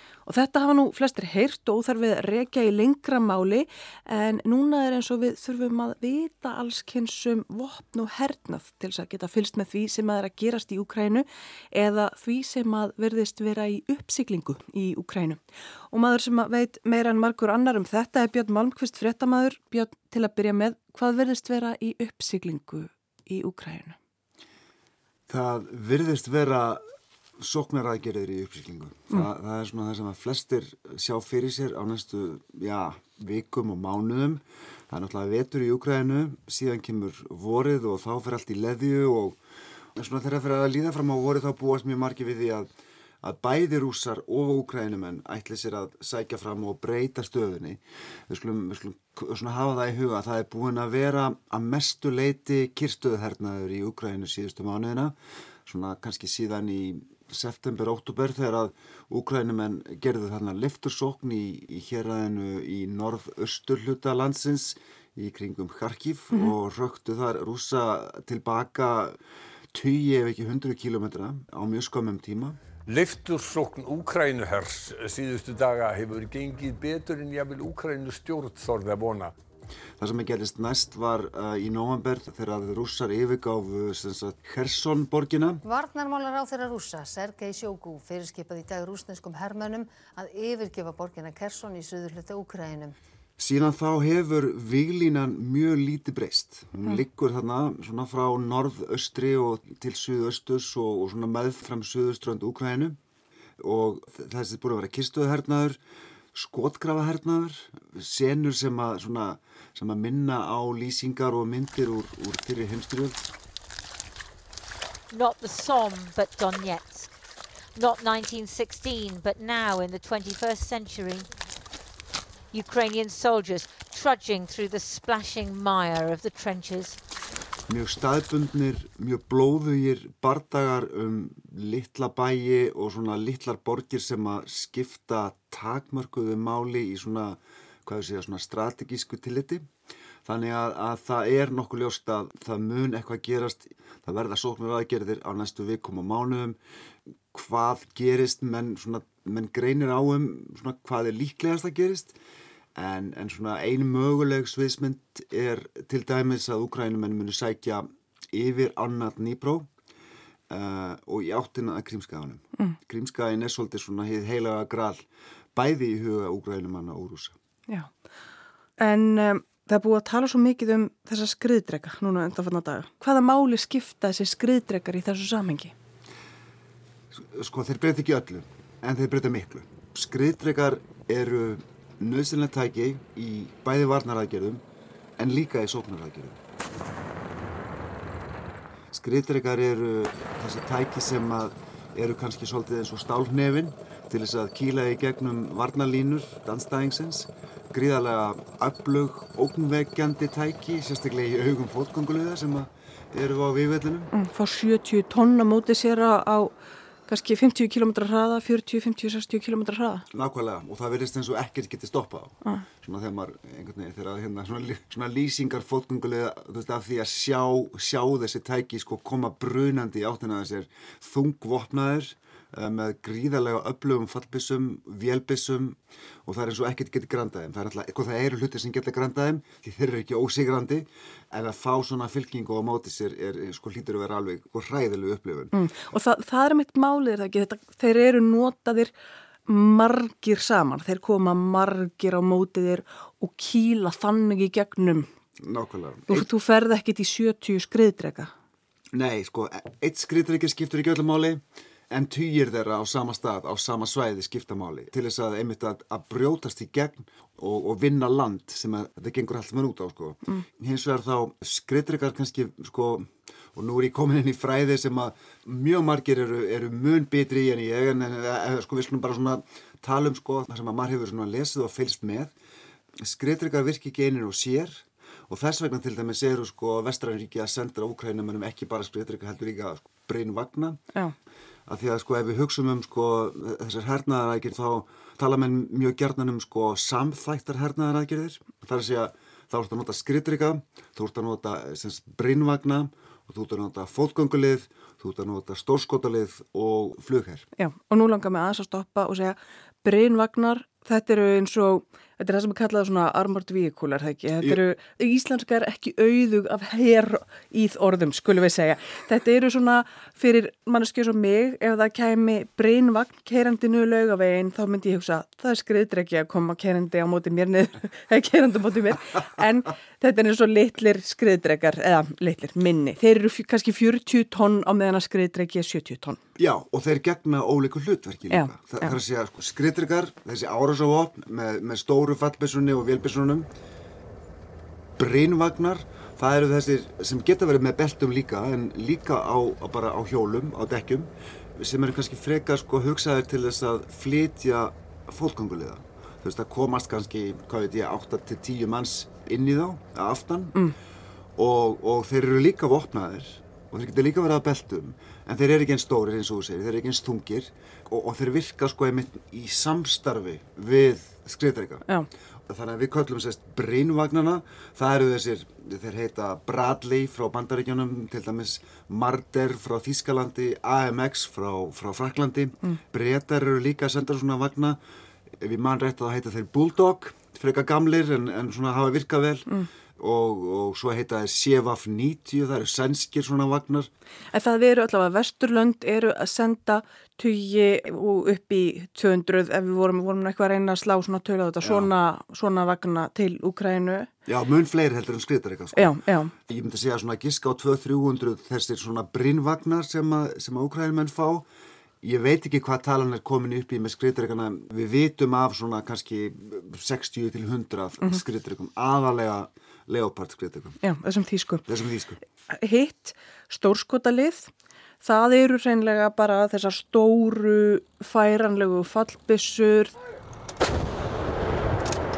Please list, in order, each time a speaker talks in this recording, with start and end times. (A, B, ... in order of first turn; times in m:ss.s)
0:00.2-0:15.4 A
0:15.9-0:24.0 A
0:25.3-0:26.8 B
0:27.4-0:39.4 B
0:40.0-0:42.7 B
0:43.2-0:55.2 B
0:55.7-1:09.2 B
1:09.7-1:12.6 B
1:12.9-1:19.3 C
1:20.0-1:25.6 B
1:25.6-1:33.0 D
1:33.4-1:43.0 B
1:43.6-1:45.8 B
1:46.4-1:53.2 B
1:55.1-1:57.1 E
1:57.7-2:01.3 E
2:02.5-2:07.0 E
2:07.7-2:19.7 B
2:20.3-2:26.6 B
2:27.3-2:32.2 B
2:32.8-2:39.7 B
2:40.5-2:47.4 B
2:48.8-2:55.7 A
2:57.1-3:04.6 B
3:05.2-3:06.4 B
3:08.9-3:24.1 B
3:24.1-3:26.6 A
3:27.1-3:30.1 A
3:30.1-3:55.6 B
3:55.5-3:58.9 A
3:59.5-4:05.1 A
4:05.4-4:06.3 B
4:06.1-4:08.3 A
4:08.9-4:32.3 B
4:33.0-4:40.8 B
4:41.7-4:57.5 B
4:57.6-5:26.2 A
5:26.4-5:33.5 B
5:28.3-5:29.0 A
5:35.0-5:50.7 B
5:51.4-6:01.8 B
6:02.5-6:14.8 B
6:15.4-6:23.9 B
6:24.3-6:34.1 A
6:31.6-6:31.9 B
6:34.3-6:41.4 B
6:35.7-6:36.3 A
6:42.0-6:50.8 B
6:50.8-6:51.6 A
6:51.7-6:52.2 B
6:52.5-6:59.9 A